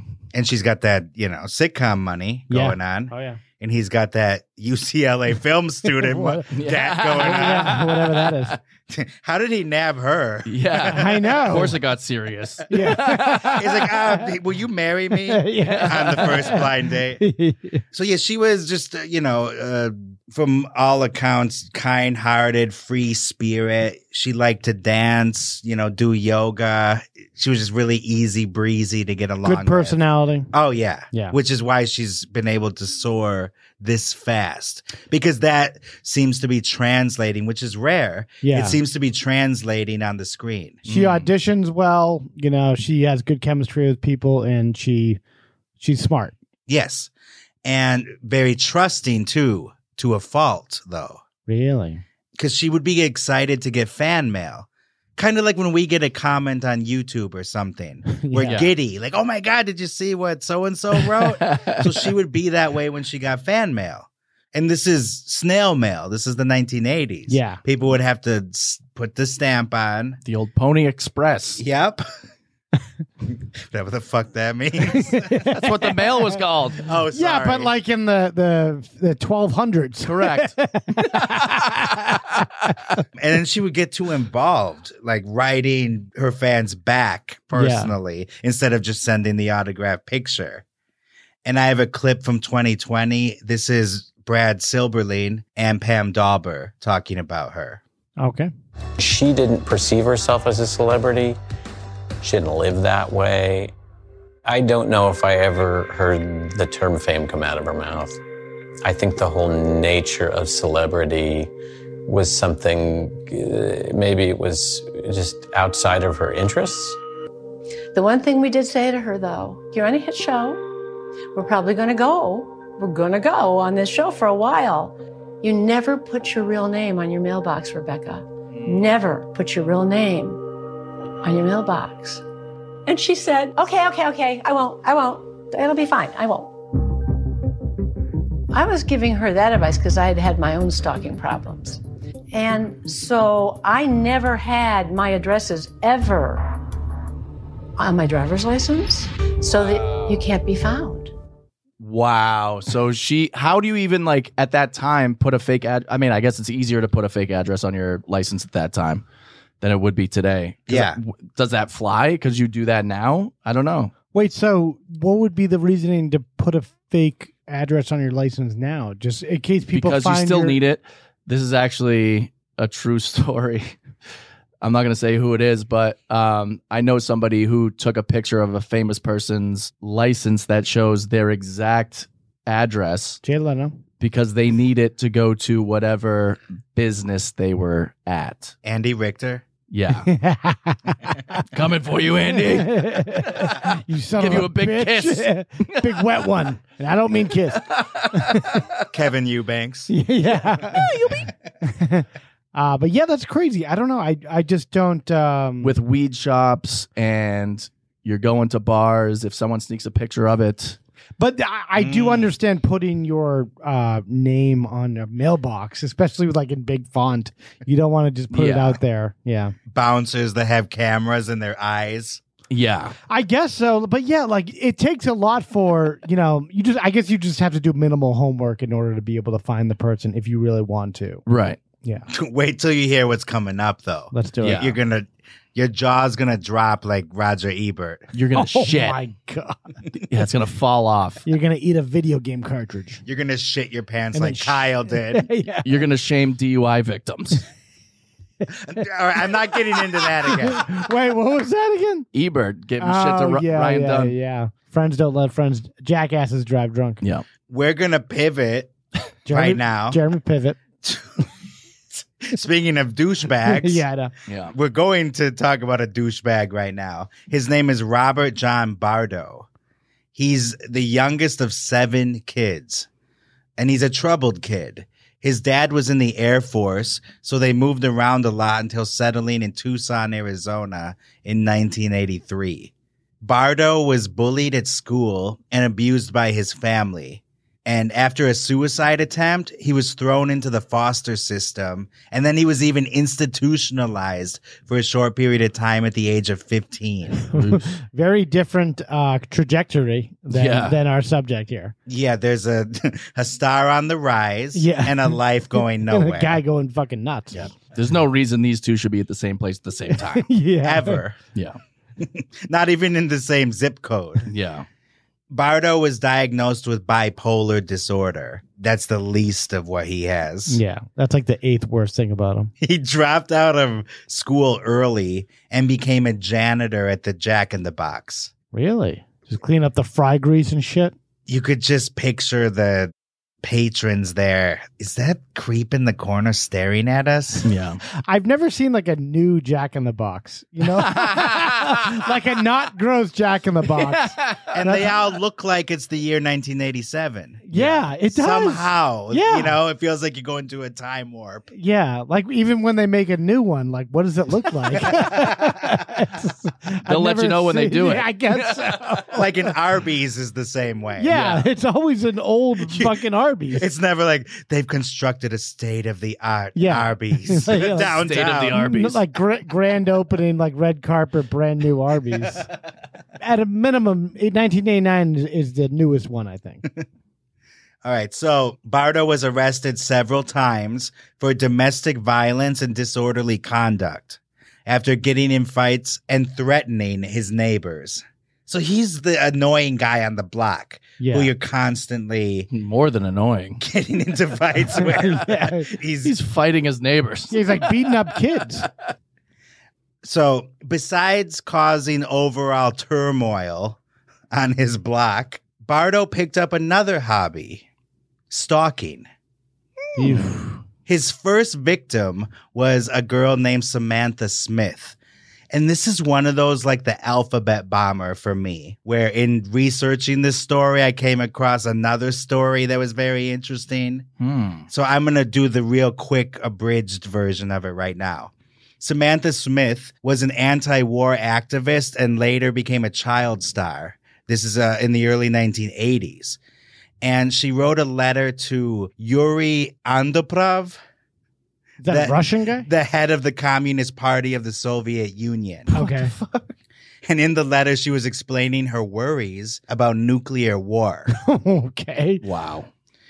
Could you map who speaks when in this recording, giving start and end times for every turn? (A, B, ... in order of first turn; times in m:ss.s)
0:00.3-0:07.9 A
0:02.5-0:03.4 B
0:05.9-0:06.5 B
0:06.6-0:08.6 C
0:07.2-0:08.6 B
0:08.9-0:11.6 A
0:10.5-0:13.5 C
0:10.9-0:11.8 B
0:12.7-0:14.3 B
0:13.5-0:17.2 A
0:15.3-0:17.8 B
0:15.6-0:16.3 C
0:17.9-0:30.0 A
0:29.4-0:30.5 B
0:30.5-0:40.9 A
0:38.4-0:38.8 B
0:40.9-0:45.2 B
0:45.8-0:46.4 B
0:46.7-0:47.1 A
0:47.6-0:51.2 A
0:51.5-0:52.0 B
0:52.4-1:10.2 A
0:58.2-0:58.6 B
1:01.2-1:01.9 C
1:07.3-1:07.6 B
1:10.2-1:11.6 C
1:11.6-1:12.0 A
1:13.6-1:15.3 A
1:14.9-1:15.9 B
1:15.5-1:16.9 C
1:16.8-1:17.7 A
1:17.1-1:22.8 B
1:20.0-1:20.6 C
1:21.2-1:21.6 C
1:23.2-1:30.6 A
1:27.5-1:27.9 B
1:31.4-1:37.8 A
1:38.2-1:38.5 B
1:39.0-1:41.4 D
1:42.2-1:43.7 D
1:44.4-1:48.2 D
1:48.8-1:51.5 D
1:52.1-1:57.0 D
1:57.9-2:00.6 E
2:01.3-2:10.4 E
2:11.2-2:12.2 E
2:12.9-2:16.6 E
2:18.5-2:26.5 E
2:27.8-2:31.1 E
2:31.8-2:39.0 C
2:39.6-2:43.9 C
2:40.7-2:41.0 A
2:44.1-2:50.6 B
2:49.7-2:53.8 C
2:54.6-3:03.2 C
3:03.2-3:03.8 B
3:04.0-3:08.6 C
3:08.6-3:09.5 A
3:09.7-3:10.1 C
3:10.1-3:11.4 B
3:11.5-3:13.6 C
3:12.4-3:18.6 B
3:14.2-3:16.1 C
3:17.7-3:18.6 C
3:18.9-3:19.9 A
3:19.9-3:20.9 B
3:20.6-3:21.3 C
3:21.6-3:25.7 B
3:25.6-3:30.8 C
3:31.2-3:39.6 B
3:31.8-3:32.2 A
3:38.3-3:38.8 C
3:39.7-3:42.2 A
3:42.5-3:43.0 C
3:43.1-3:51.2 B
3:51.3-3:51.6 C
3:52.1-3:58.1 A
3:54.1-3:54.7 B
3:54.4-3:54.7 C
3:58.1-3:59.0 C
3:58.4-3:59.6 B
4:00.1-4:01.2 C
4:01.2-4:03.0 B
4:03.1-4:05.3 A
4:04.1-4:05.7 B
4:05.6-4:07.4 C
4:08.6-4:10.7 A
4:09.8-4:12.1 B
4:12.1-4:14.1 C
4:12.8-4:17.0 B
4:17.5-4:18.7 A
4:19.3-4:20.6 B
4:19.3-4:20.0 A
4:20.8-4:21.3 A
4:21.9-4:23.8 A
4:23.4-4:24.1 B
4:24.3-4:24.5 C
4:24.5-4:29.5 A
4:30.2-4:32.9 A
4:33.6-4:57.2 A
4:57.3-5:01.7 B
4:57.3-4:57.7 C
5:00.3-5:00.8 C
5:01.9-5:06.4 A
5:04.5-5:07.4 B
5:07.3-5:10.3 C
5:10.1-5:11.0 B
5:10.6-5:11.2 A
5:12.0-5:14.3 A
5:14.3-5:14.7 C
5:15.3-5:20.6 A
5:20.5-5:22.5 B
5:22.6-5:28.3 A
5:28.5-5:30.9 B
5:31.3-5:32.9 A
5:33.4-5:37.5 A
5:37.4-5:37.8 C
5:38.1-5:44.9 B
5:40.8-5:41.7 C
5:43.7-5:44.4 C
5:44.5-5:47.5 A
5:47.5-5:49.5 B
5:48.1-5:51.5 A
5:51.5-5:59.5 B
5:54.9-5:55.6 A
5:56.9-5:58.8 C
5:59.1-6:01.2 A
6:01.0-6:03.7 B
6:01.1-6:01.5 C
6:02.6-6:03.0 A
6:03.5-6:08.6 A
6:06.6-6:12.5 B
6:07.9-6:09.0 C
6:13.2-6:16.7 B
6:17.8-6:32.5 A
6:31.0-6:31.3 B
6:32.5-6:33.6 C
6:33.6-6:36.1 A
6:34.8-6:35.7 B
6:36.0-6:37.9 C
6:37.3-6:38.7 B
6:40.0-6:43.8 A
6:44.3-6:47.7 A
6:48.3-6:49.1 A
6:50.0-6:50.6 B
6:50.0-6:50.3 C
6:50.9-6:55.0 A
6:55.5-7:04.1 A
7:04.2-7:04.7 C
7:04.7-7:16.4 A
7:17.0-7:20.8 A
7:21.8-7:22.7 B
7:21.9-7:25.7 A
7:25.7-7:26.1 B
7:27.0-7:31.1 A
7:31.1-7:32.2 B
7:32.2-7:32.7 C